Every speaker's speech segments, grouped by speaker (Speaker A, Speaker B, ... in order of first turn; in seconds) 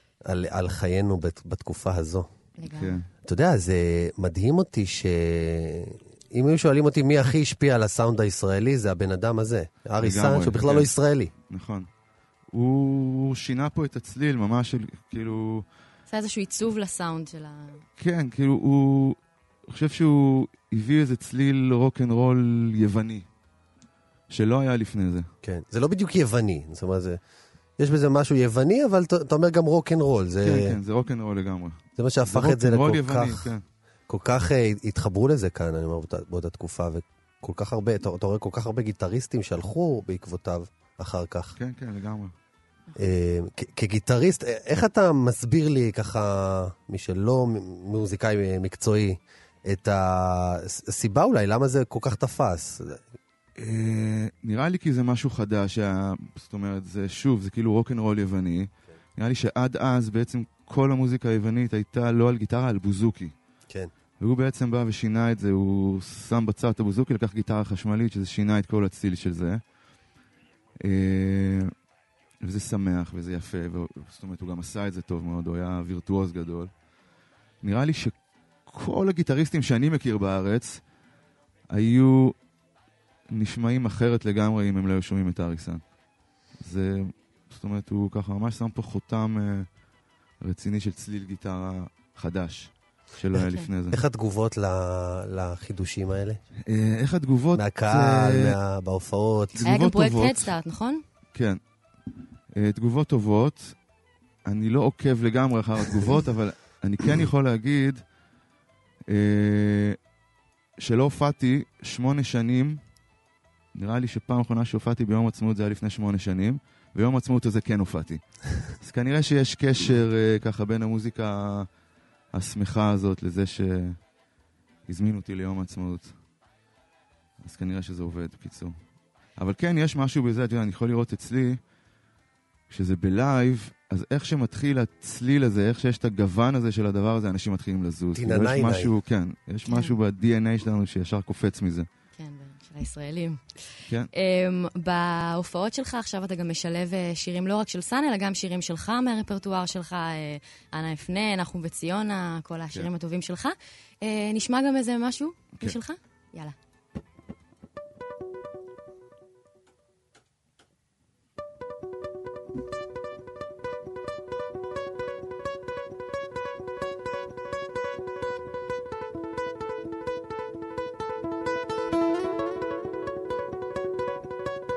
Speaker A: 0.2-2.3, 3.3-11.3, 25.4-27.2, 27.8-30.8, 32.0-33.5, 34.1-41.6, 43.0-53.0, 93.9-96.4, 97.5-99.7, 138.1-139.0
Speaker B: 2.6-3.0, 16.1-17.8, 99.6-101.0, 139.7-140.0, 142.2-143.4, 144.1-156.6
Speaker C: 2.8-3.1, 10.0-11.0, 11.5-11.9, 12.5-15.7, 18.0-23.3, 24.3-25.3, 30.4-33.6, 41.6-42.4, 53.6-63.4, 64.2-69.7, 70.8-71.8, 72.4-76.8, 77.6-80.9, 81.7-82.4, 83.3-85.9, 86.5-89.8, 90.4-94.0, 96.7-98.6, 99.5-100.5, 101.3-101.6, 102.5-103.8, 104.5-108.1, 109.1-110.0, 110.8-112.8, 113.7-121.7, 122.3-124.1, 124.9-126.2, 127.4-131.7, 132.7-141.9